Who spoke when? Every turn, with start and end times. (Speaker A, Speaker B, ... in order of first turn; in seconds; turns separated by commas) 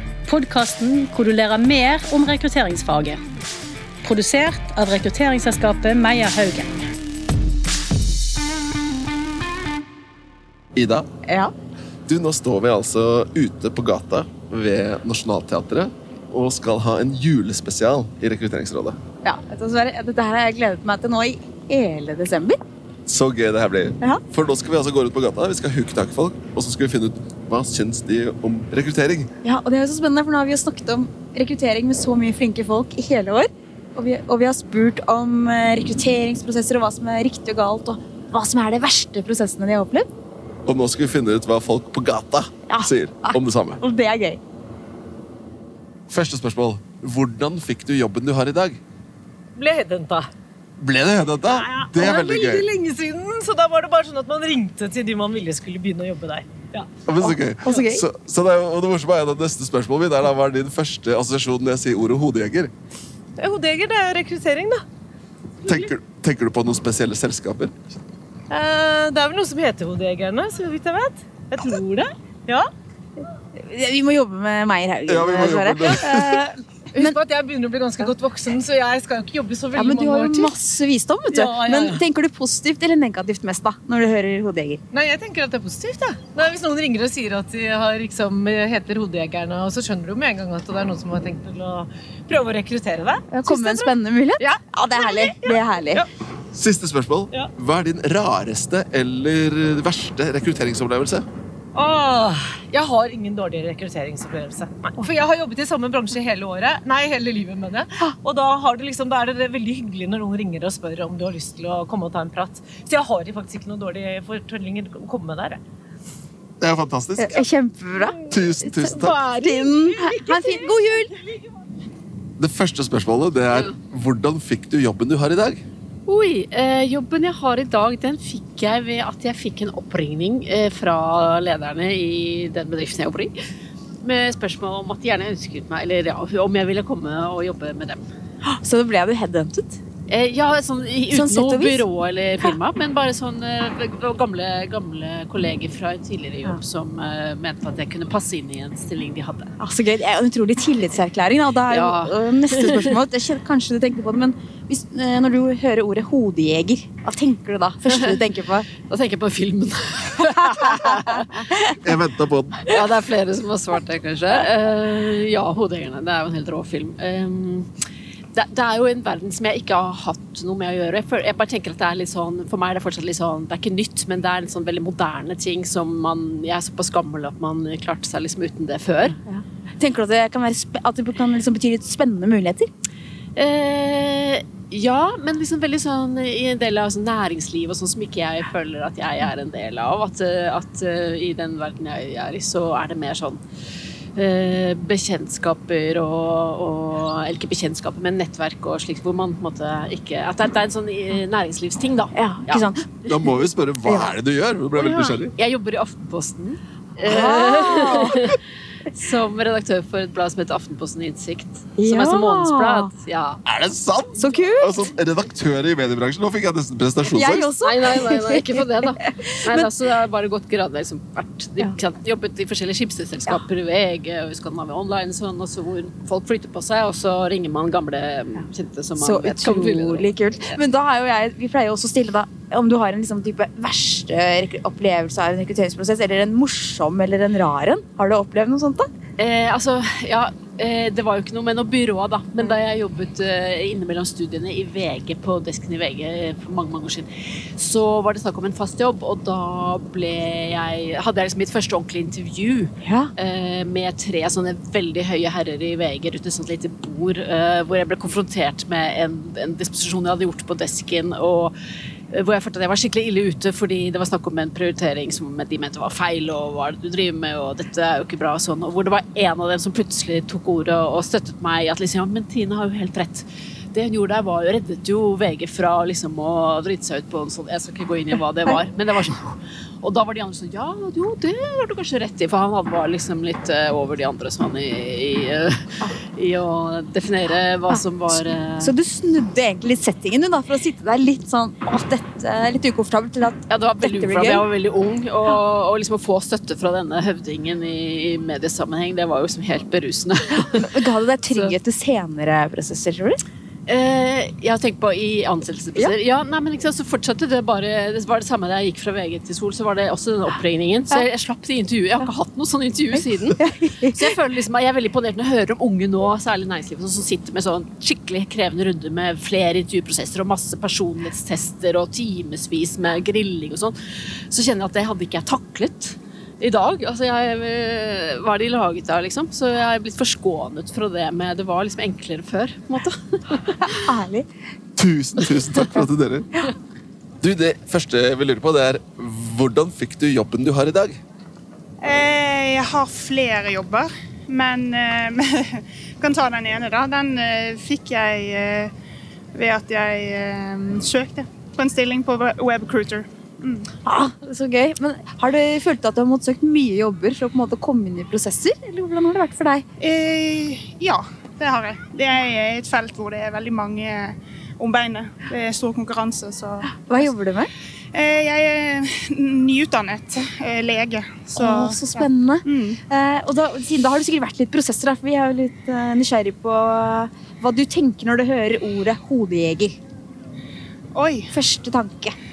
Speaker A: 0.2-3.2, Speaker A: 4.0-6.8, Speaker B: 10.8-11.1, Speaker B: 12.1-19.0, Speaker C: 19.2-22.6, Speaker B: 23.1-29.3, Speaker C: 29.4-40.0, Speaker B: 40.6-43.8, Speaker C: 42.7-44.4, Speaker B: 46.1-48.8, Speaker D: 49.5-50.3, Speaker B: 50.8-52.6, Speaker D: 51.5-56.9, Speaker B: 57.1-62.7, Speaker C: 57.2-58.0, Speaker D: 63.4-64.8, Speaker B: 65.6-67.7, Speaker D: 68.5-72.7, Speaker C: 73.6-77.2, Speaker B: 75.1-76.4, Speaker D: 76.9-80.5, Speaker C: 79.7-84.8, Speaker D: 81.3-82.0, Speaker D: 84.9-96.0, Speaker C: 93.3-96.0, Speaker B: 96.5-101.2, Speaker D: 101.7-115.6, Speaker B: 116.6-117.4, Speaker C: 117.2-121.1, Speaker B: 118.3-119.2, Speaker D: 118.9-120.5, Speaker B: 122.4-125.6, Speaker E: 126.0-133.3, Speaker E: 134.0-138.0, Speaker C: 138.5-139.8, Speaker E: 140.1-149.5, Speaker C: 141.1-141.8, Speaker C: 149.6-158.7, Speaker E: 151.7-152.9, Speaker E: 157.9-158.2, Speaker E: 158.8-161.3, Speaker B: 161.8-162.6, Speaker E: 162.6-167.7, Speaker E: 168.3-179.2, Speaker C: 179.2-182.7, Speaker E: 183.3-193.4, Speaker E: 194.2-202.7, Speaker C: 202.1-202.8, Speaker B: 203.1-205.3, Speaker E: 204.7-213.4, Speaker C: 207.0-208.2, Speaker C: 211.8-212.9, Speaker B: 213.4-217.5, Speaker C: 214.2-214.9, Speaker C: 217.1-218.6, Speaker E: 217.6-230.5, Speaker C: 219.3-219.7, Speaker C: 229.0-238.9, Speaker E: 239.2-261.5, Speaker C: 252.8-253.1, Speaker E: 262.1-285.6, Speaker E: 286.1-288.7, Speaker C: 287.7-294.5, Speaker E: 293.5-301.6, Speaker C: 300.6-303.2, Speaker E: 303.7-323.7, Speaker C: 313.4-313.9, Speaker E: 324.3-333.7, Speaker C: 333.6-334.2, Speaker B: 334.8-336.3, Speaker B: 337.2-341.0, Speaker F: 341.8-348.7, Speaker F: 349.3-353.6, Speaker C: 353.8-359.6, Speaker F: 359.8-366.7, Speaker C: 366.7-367.5, Speaker F: 367.9-372.8, Speaker C: 371.4-379.8, Speaker F: 380.9-381.3, Speaker C: 381.3-382.1